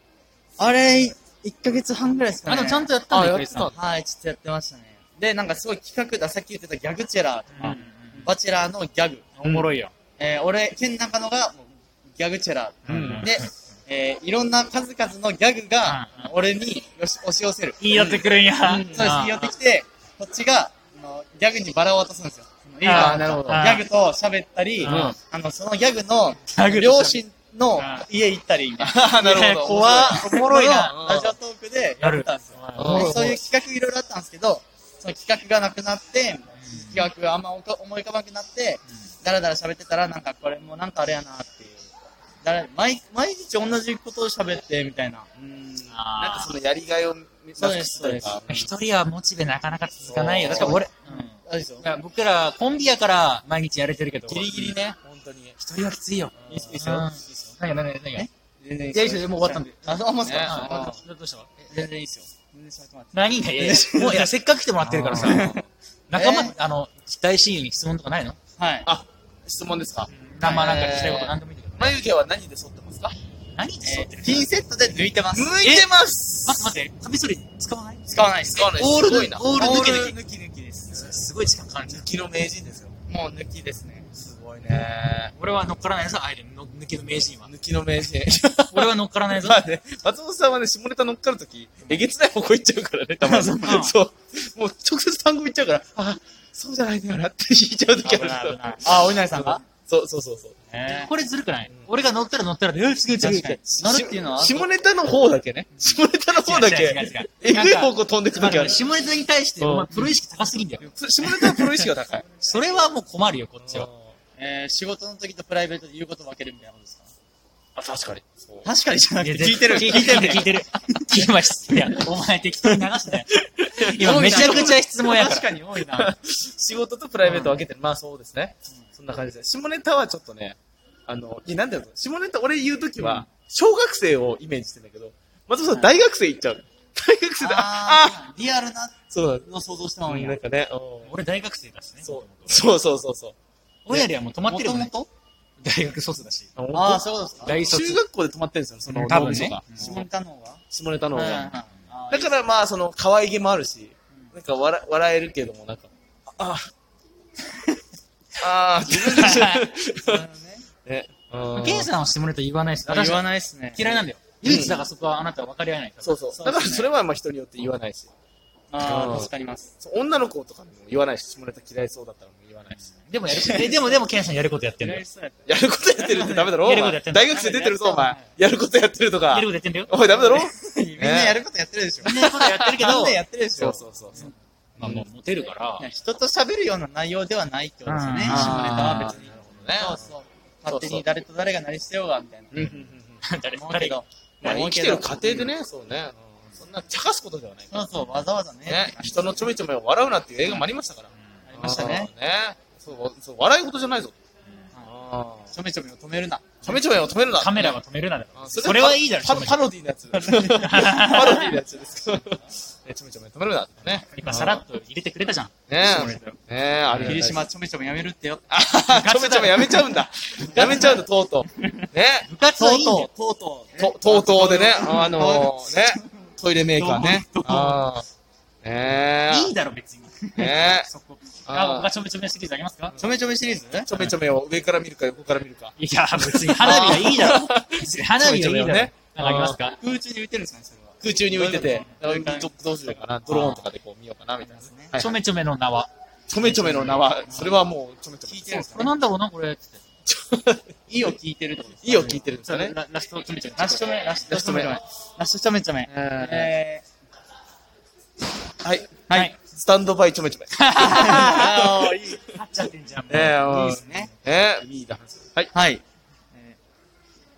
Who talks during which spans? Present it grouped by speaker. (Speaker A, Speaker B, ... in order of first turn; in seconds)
Speaker A: 0.6-2.9, 3.7-9.3, 10.2-41.8, 42.4-45.3, 47.6-48.4, 50.5-51.9, 54.3-55.0, 56.4-57.1, 58.1-61.0, 61.7-64.3, 65.0-66.5, 68.6-68.9, 70.4-71.3, 73.8-75.5, 78.1-81.0, 83.1-84.1, 93.2-93.9, 98.0-99.6, 100.8-101.1, 103.2-104.7, 114.4-117.1, 118.7-120.6, 121.2-122.0, 124.0-126.1, 137.4-140.4, 144.5-145.1, 146.7-147.6, 149.8-150.6, 151.2-152.4, 160.1-160.7, 162.9-164.1, 166.4-166.9, 168.7-169.7, 174.8-176.7, 180.1-184.2, 185.8-192.7, 193.5-195.5, 197.7-199.5, 201.5-202.1, 205.5-206.8, 217.0-218.4, 220.4-221.0, 221.6-221.9, 222.6-227.7, 233.0-233.9, 236.6-237.2, 239.8-242.5, 244.4-244.9, 247.3-247.6, 248.3-248.9, 250.9-252.2, 253.6-256.9, 259.1-259.3, 260.8-262.2, 263.4-264.1, 265.5-265.8
Speaker B: 2.5-3.7, 7.5-8.3, 9.4-9.9, 12.9-13.5, 15.8-16.3, 17.8-19.5, 22.8-23.8, 24.8-25.2, 26.5-27.2, 27.8-28.1, 29.2-31.0, 32.0-33.4, 36.5-37.1, 45.9-46.5, 48.5-54.8, 55.6-58.3, 58.9-61.5, 63.1-65.6, 66.1-68.4, 70.1-72.0, 73.5-74.5, 75.6-75.9, 76.5-78.0, 78.8-80.2, 80.9-82.1, 85.3-87.5, 88.3-89.6, 93.7-94.0, 100.7-103.6, 105.8-113.9, 119.2-125.7, 127.2-127.6, 133.0-133.3, 141.0-142.6, 143.9-144.9, 145.6-146.5, 147.4-148.0, 148.9-149.9, 151.2-151.7, 158.9-159.7, 161.5-166.6, 172.7-175.0, 176.6-178.2, 179.3-179.9, 182.0-183.2, 184.2-185.8, 187.9-189.6, 192.6-194.0, 207.3-209.6, 210.3-211.6, 213.9-216.4, 216.9-217.2, 218.9-220.0, 220.6-220.9, 222.3-223.1, 226.8-227.8, 229.3-232.9, 235.8-239.8, 243.3-243.7, 245.0-247.1, 248.5-249.8, 252.1-253.9, 260.6-261.5, 262.3-263.5
Speaker C: 3.1-3.8, 12.9-13.3, 17.9-19.2, 22.9-23.4, 24.9-25.2, 28.8-31.4, 32.8-33.4, 45.4-48.7, 50.0-50.8, 54.3-55.6, 56.5-57.0, 60.2-60.8, 64.8-65.6, 68.9-73.2, 75.3-76.7, 78.5-80.0, 81.8-83.0, 84.2-85.3, 87.5-98.7, 99.3-100.6, 103.2-108.8, 109.6-109.9, 110.8-112.3, 113.6-114.1, 117.8-118.7, 123.9-124.9, 125.8-138.2, 139.1-139.5, 140.1-141.1, 142.0-143.4, 146.6-150.1, 150.7-151.6, 152.1-156.7, 158.4-160.2, 160.9-161.9, 164.4-164.9, 166.0-168.1, 168.8-172.8, 173.3-173.7, 175.5-181.4, 182.2-183.0, 183.6-184.3, 184.8-185.1, 188.3-190.0, 190.7-191.0, 192.5-193.2, 194.4-197.8, 198.7-204.2, 204.8-205.5, 206.6-207.8, 208.4-214.7, 215.7-217.4, 218.5-222.3, 223.8-228.1, 228.6-229.6, 230.4-230.9, 231.5-231.9, 233.9-239.6, 241.0-245.2, 246.3-248.8, 250.1-250.8, 251.8-252.8, 254.3-254.8, 255.9-256.5, 258.6-262.0, 263.1-265.5